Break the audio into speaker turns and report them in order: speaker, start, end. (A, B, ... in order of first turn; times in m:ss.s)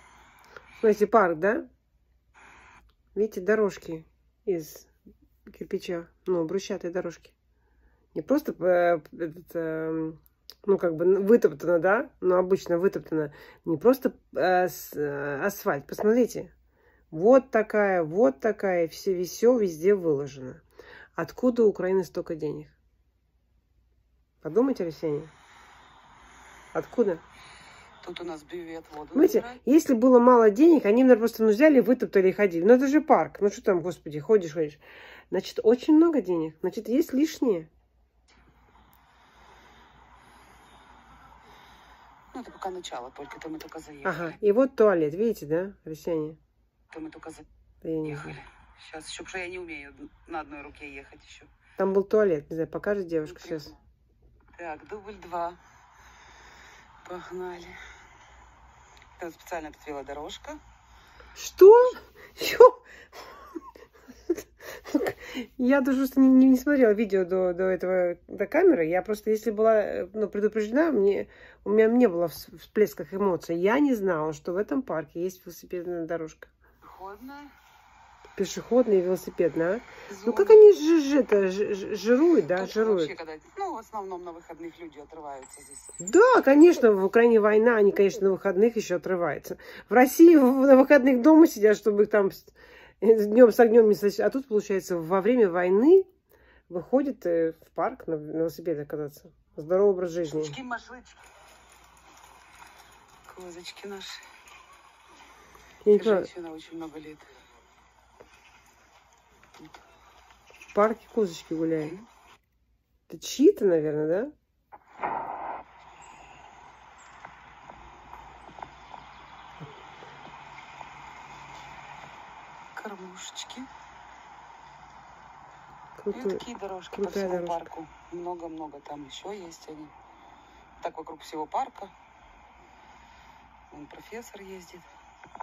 0:00.8-0:01.7 A
0:03.1-0:04.9 A
0:05.5-0:07.3 A
0:08.1-0:16.5 A
0:17.1-0:20.6 A
0:21.2-0:22.8 A
0:24.4-0:25.3 A
0:26.7-0:27.2 A
0:28.0-0:29.6 B
0:29.1-0:37.7 A
0:42.3-0:44.4 B
0:44.0-0:46.4 A
0:46.9-0:47.5 B
0:47.8-0:48.4 A
0:48.0-0:51.5 B
0:51.8-0:53.7 A
0:53.3-0:53.7 B
0:54.6-0:55.6 B
0:57.0-0:57.8 B
0:59.2-1:00.6 B
1:01.4-1:02.8 A
1:04.3-1:16.5 A
1:16.8-1:17.5 B
1:18.4-1:23.1 A
1:20.1-1:20.7 B
1:22.5-1:25.9 B
1:26.0-1:36.1 A
1:36.7-1:40.6 A
1:40.3-1:41.2 B
1:43.3-1:44.2 B
1:45.8-1:46.3 A
1:45.9-1:47.3 B
1:50.7-1:52.0 A
1:53.1-1:54.3 A
2:02.8-2:03.7 B
2:06.0-2:07.7 A
2:06.1-2:09.9 B
2:10.8-2:11.9 B
2:13.7-2:14.9 B